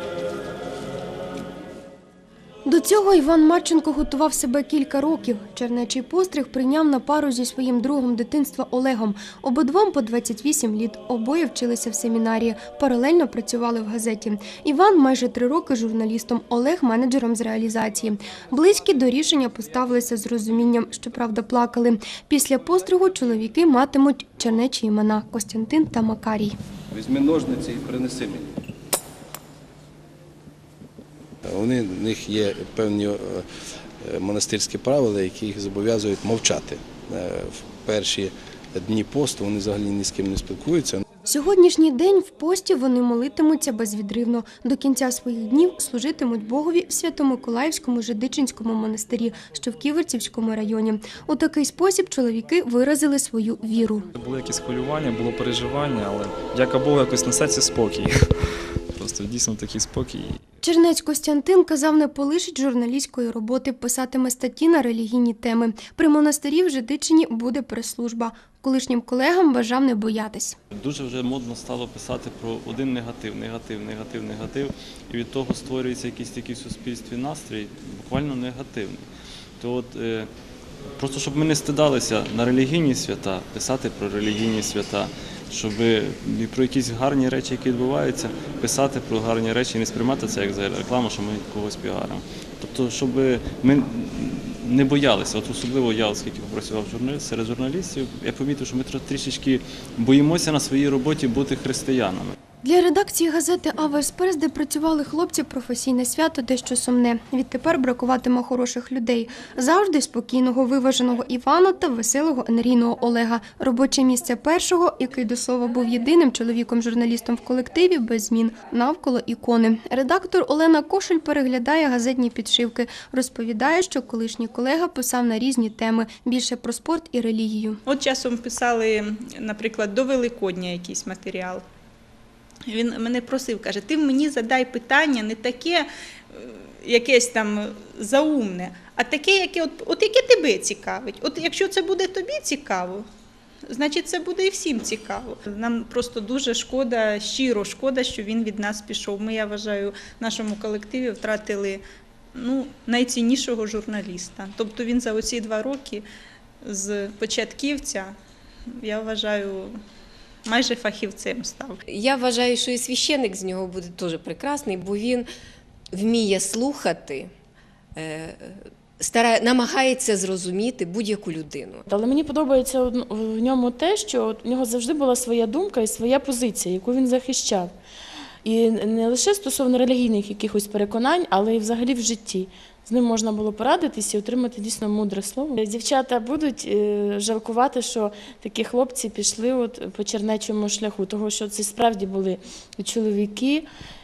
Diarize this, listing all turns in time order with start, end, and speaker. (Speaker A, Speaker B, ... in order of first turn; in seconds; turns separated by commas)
Speaker A: 2.6-26.6, Speaker B: 26.9-28.6, Speaker B: 31.5-33.5, Speaker B: 34.0-41.0, Speaker A: 41.2-54.1, Speaker C: 54.1-58.3, Speaker C: 58.9-60.4, Speaker A: 60.6-70.6, Speaker D: 70.8-79.0, Speaker D: 79.6-80.3, Speaker D: 81.0-102.3, Speaker A: 102.6-127.8, Speaker E: 127.9-131.6, Speaker E: 132.7-143.1, Speaker E: 143.7-156.1, Speaker E: 156.6-158.2, Speaker E: 158.7-159.8, Speaker E: 160.4-161.8, Speaker F: 161.9-165.3, Speaker F: 165.9-167.3, Speaker F: 168.0-171.9, Speaker G: 171.9-177.7, Speaker G: 178.4-193.7